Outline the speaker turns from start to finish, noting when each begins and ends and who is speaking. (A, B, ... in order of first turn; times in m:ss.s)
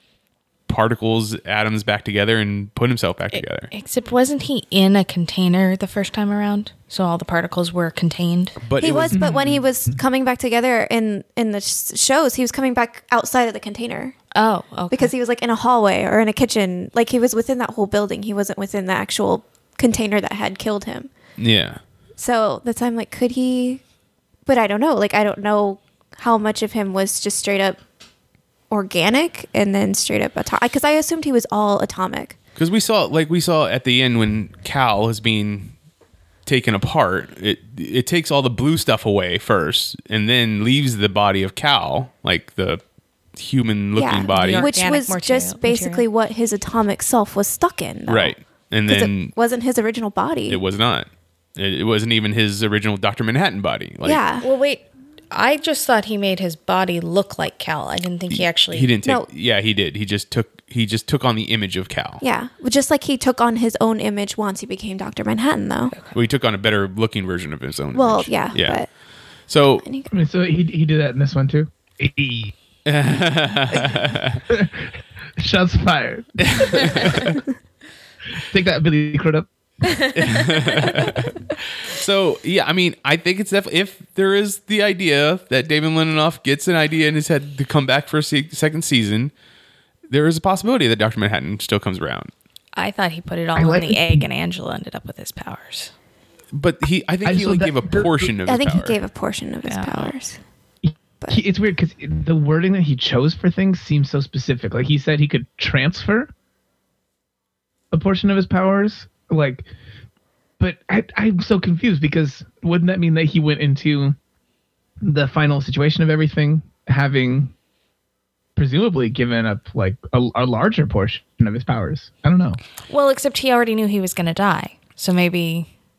0:00.7-0:03.7 A
0:03.3-0:08.6 B
0:08.6-0:09.2 A
0:08.8-0:14.2 C
0:09.1-0:10.0 D
0:14.3-0:15.1 B
0:14.9-0:21.1 C
0:21.4-0:21.8 A
0:22.2-0:23.8 C
0:24.4-0:27.8 C
0:28.7-0:32.3 C
0:32.6-0:35.7 A
0:36.4-0:42.8 A
0:43.4-0:44.7 A
0:44.0-0:48.3 C
0:44.3-0:46.0 B
0:48.1-0:49.3 A
0:48.9-0:50.6 C
0:50.5-0:54.2 A
0:54.0-0:54.4 C
0:54.4-0:58.9 B
0:58.3-1:02.2 A
1:02.2-1:05.9 C
1:05.9-1:06.2 B
1:06.1-1:08.8 A
1:07.9-1:08.9 C
1:09.5-1:09.9 A
1:09.8-1:10.1 C
1:10.1-1:12.5 D
1:12.8-1:14.4 A
1:14.5-1:17.0 D
1:16.4-1:17.4 A
1:18.5-1:19.5 D
1:20.1-1:29.3 A
1:30.1-1:32.3 A
1:32.7-1:35.9 B
1:33.6-1:34.2 D
1:36.5-1:39.0 A
1:37.2-1:38.2 D
1:38.4-1:40.4 C
1:39.6-1:40.1 B
1:40.8-1:46.3 D
1:47.9-1:49.7 D
1:50.6-1:54.2 D
1:55.0-1:57.5 D
1:58.6-2:02.6 D
2:02.9-2:05.7 B